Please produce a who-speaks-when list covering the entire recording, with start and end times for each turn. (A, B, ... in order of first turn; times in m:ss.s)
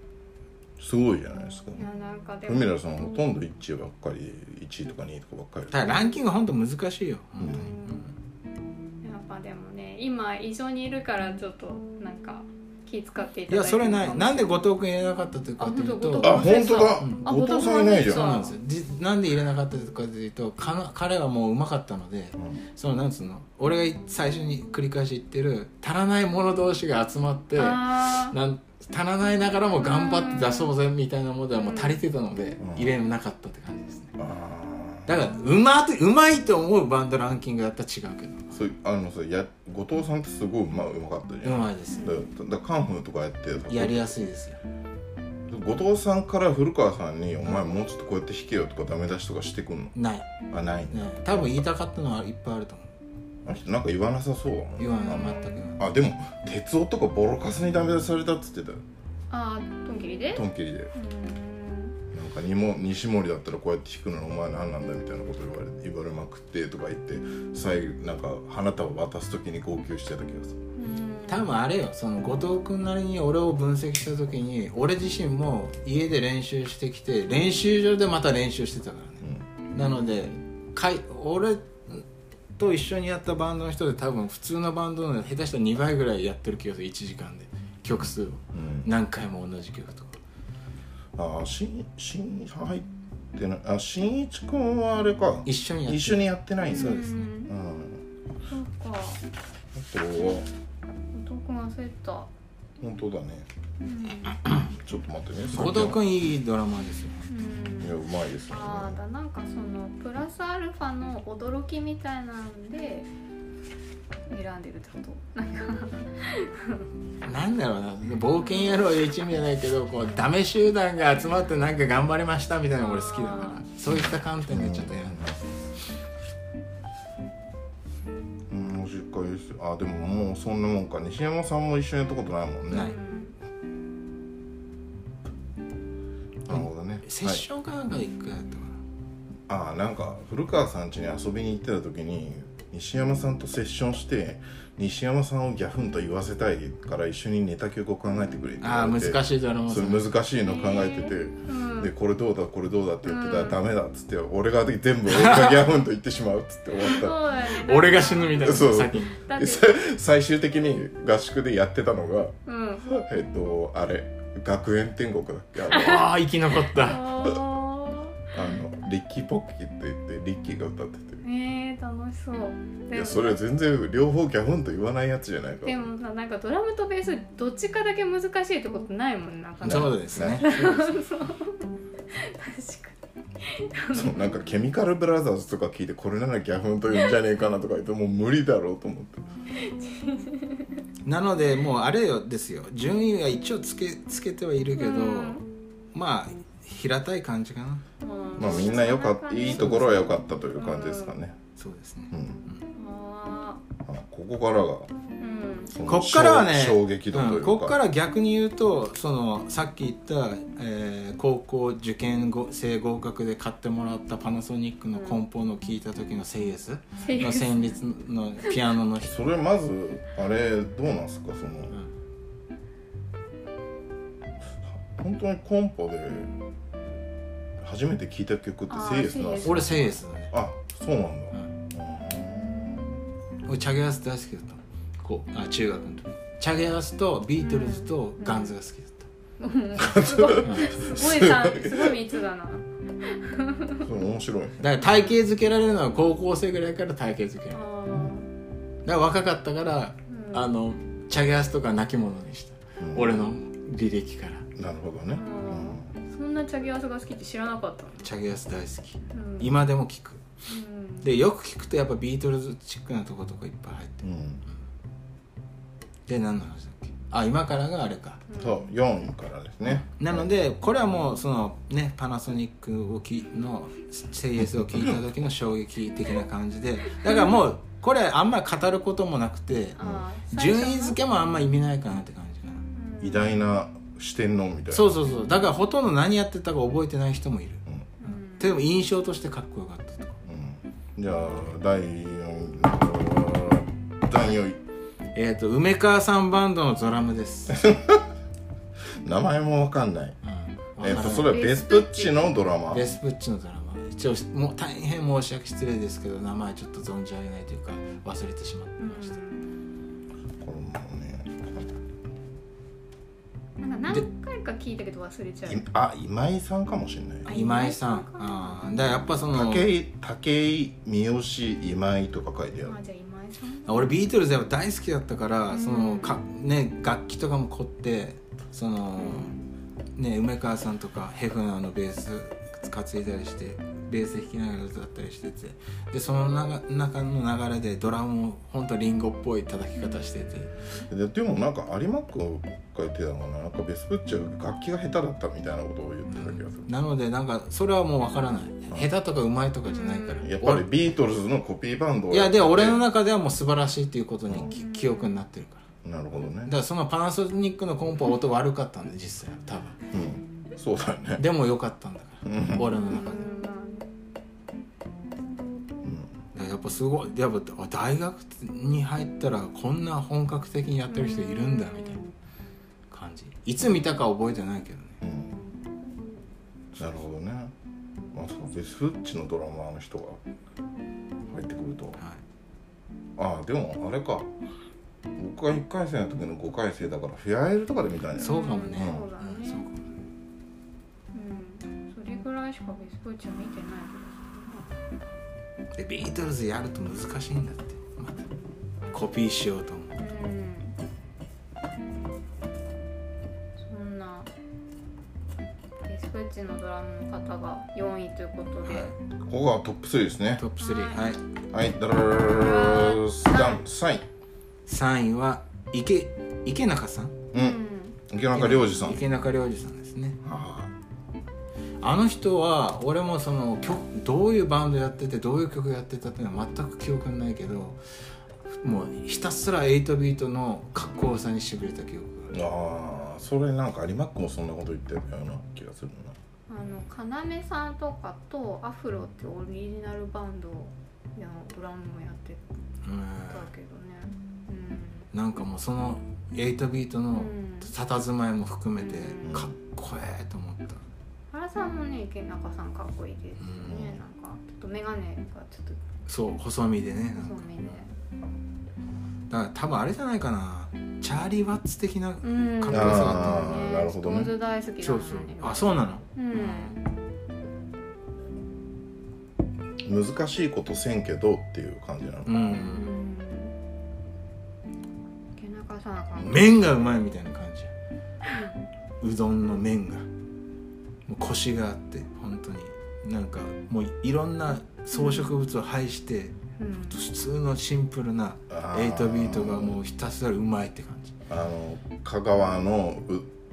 0:00.8-0:01.9 A
0:01.8-0:02.8 B
0:02.5-0:06.0 A
0:05.7-0:08.1 C
0:07.4-0:07.7 A
0:07.4-0:08.1 B
0:09.0-0:14.6 B
0:13.5-0:17.3 C
0:15.6-0:18.6 B
0:16.2-0:18.5 A
0:18.0-0:34.1 C
0:27.6-0:28.4 B
0:29.8-0:30.7 B
0:31.6-0:32.0 B
0:32.6-0:32.9 A
0:34.2-0:35.1 A
0:35.1-0:38.5 C
0:38.5-0:44.1 A
0:41.4-0:42.1 C
0:41.9-0:42.2 B
0:43.7-0:44.6 C
0:45.5-0:49.9 A
0:50.0-0:50.3 C
0:50.5-0:51.5 A
0:50.9-0:52.9 C
0:53.4-0:58.8 A
0:54.8-0:55.8 C
0:54.8-0:55.7 B
0:59.3-1:02.0 B
1:00.3-1:00.9 A
1:02.1-1:10.6 A
1:10.8-1:11.5 B
1:11.3-1:22.0 C
1:19.8-1:20.0 B
1:22.6-1:30.2 C
1:28.5-1:28.9 A
1:31.2-1:38.0 A
1:35.4-1:37.3 C
1:36.7-1:37.5 B
1:38.4-1:39.2 B
1:39.7-1:40.5 A
1:41.1-1:42.3 B
1:42.8-1:43.5 A
1:43.8-1:44.4 B
1:44.7-1:46.0 A
1:45.5-1:47.3 C
1:47.3-1:53.1 B
1:47.8-1:49.0 A
1:54.3-1:56.9 B
1:57.2-2:05.3 C
2:02.8-2:03.6 B
2:03.9-2:05.4 A
2:08.5-2:12.9 A
2:12.7-2:13.0 C
2:12.7-2:13.4 B
2:16.5-2:17.4 A
2:16.5-2:18.8 C
2:19.5-2:37.2 A
2:28.6-2:30.0 C
2:30.5-2:31.9 B
2:33.0-2:33.6 B
2:35.1-2:35.6 C
2:36.8-2:39.8 B
2:37.5-2:39.2 C
2:38.4-2:46.1 A
2:42.5-2:42.9 B
2:45.7-2:46.0 B
2:45.7-2:47.0 C
2:46.7-2:48.3 B
2:48.3-2:51.2 A
2:51.2-2:53.4 B
2:52.9-2:55.8 A
2:55.6-3:04.4 B
2:59.6-3:01.0 C
2:59.6-3:00.5 A
3:03.9-3:09.2 A
3:09.6-3:10.8 B
3:11.0-3:15.4 C
3:14.8-3:15.4 B
3:15.9-3:17.8 C
3:18.0-3:21.2 B
3:18.4-3:21.4 A
3:21.6-3:22.7 C
3:22.1-3:22.4 A
3:22.7-3:23.6 B
3:23.9-3:24.9 A
3:25.2-3:25.8 B
3:25.7-3:27.8 A
3:25.9-3:39.2 C
3:35.0-3:35.2 B
3:37.0-3:37.7 B
3:39.0-3:41.8 A
3:44.7-3:46.3 A
3:47.6-3:49.7 A
3:48.7-3:50.0 B
3:49.4-3:50.3 C
3:50.3-3:53.0 A
3:52.3-3:52.9 B
3:53.5-3:59.1 C
3:57.4-3:58.6 B
3:59.4-4:03.8 B
3:59.8-4:02.0 A
4:00.4-4:00.7 C
4:03.8-4:04.6 A
4:04.6-4:07.6 C
4:07.5-4:08.3 B
4:08.8-4:14.5 C
4:10.1-4:10.5 B
4:12.8-4:13.3 A
4:14.6-4:15.9 A
4:15.1-4:18.1 B
4:18.0-4:20.2 C
4:19.1-4:19.6 B
4:20.5-4:21.2 B
4:21.0-4:24.6 C
4:24.0-4:24.4 A
4:26.1-4:28.2 C
4:28.3-4:28.7 B
4:28.4-4:30.3 A
4:29.6-4:42.6 C
4:34.7-4:35.0 A
4:37.0-4:37.4 B
4:39.8-4:41.0 B
4:39.8-4:40.1 A
4:42.7-4:43.4 B
4:43.0-4:44.9 A
4:44.7-4:50.2 C
4:48.0-4:48.6 B
4:50.2-4:54.6 A
4:55.1-4:57.6 C
4:57.5-4:58.1 A
4:59.0-5:00.2 A
5:00.2-5:01.4 C
5:00.8-5:02.9 A
5:00.8-5:02.3 B
5:02.7-5:09.2 C
5:08.8-5:09.5 B
5:10.4-5:11.8 A
5:13.6-5:15.7 B
5:15.4-5:17.3 A
5:17.3-5:18.7 B
5:17.3-5:19.7 C
5:19.3-5:22.8 A
5:22.6-5:24.0 B
5:23.7-5:29.4 C
5:25.5-5:26.2 B
5:29.0-5:29.5 B
5:30.0-5:40.5 C
5:39.8-5:40.9 B
5:40.9-5:46.7 A
5:46.1-5:50.7 C
5:49.7-5:50.3 B
5:50.2-5:52.8 A
5:52.1-5:55.6 C
5:54.5-5:55.2 B
5:55.8-5:56.5 A
5:56.5-5:59.8 C
5:59.9-6:01.2 A
6:01.2-6:03.3 C
6:02.2-6:02.6 A
6:02.6-6:03.9 B
6:05.8-6:06.1 A
6:06.3-6:12.0 C
6:10.9-6:12.0 B
6:12.9-6:15.0 C
6:15.0-6:15.4 A
6:16.8-6:17.0 C
6:16.8-6:17.5 A
6:18.1-6:20.2 A
6:21.3-6:22.0 A
6:23.2-6:24.3 A
6:25.2-6:29.1 A
6:28.2-6:29.7 B
6:28.2-6:29.9 C
6:31.1-6:34.7 B
6:35.8-6:38.3 C
6:38.9-6:40.0 C
6:40.0-6:40.8 B
6:43.6-6:44.3 B
6:45.8-6:48.9 B
6:48.7-6:48.9 C
6:49.2-6:50.4 A
6:50.4-6:51.2 C
6:50.6-6:51.2 B
6:51.5-6:54.1 A
6:52.3-6:53.6 B
6:54.7-6:57.1 C
6:57.3-6:59.0 A
6:57.3-6:58.0 B
6:58.3-7:00.2 C
7:00.2-7:00.7 A
7:01.8-7:07.8 C
7:08.5-7:12.3 C
7:12.3-7:16.2 A
7:16.5-7:22.4 B
7:22.8-7:23.5 C
7:23.3-7:25.1 B
7:25.1-7:30.8 C
7:27.1-7:27.7 B
7:28.8-7:29.3 B
7:29.2-7:29.5 A
7:31.3-7:35.8 B
7:33.4-7:33.8 C
7:33.7-7:34.0 A
7:36.1-7:37.4 C
7:37.1-7:37.9 B
7:39.3-7:43.6 C
7:42.2-7:46.8 B
7:42.7-7:44.3 A
7:44.8-7:46.8 C
7:49.8-7:52.7 A
7:52.3-7:53.0 C
7:52.7-7:53.6 B
7:55.4-7:56.8 B
7:56.2-7:57.7 C
7:58.2-7:58.5 B
7:59.0-8:00.1 C
8:01.1-8:11.1 C
8:04.9-8:05.3 B
8:06.6-8:07.0 B
8:08.5-8:09.8 A
8:11.3-8:13.3 A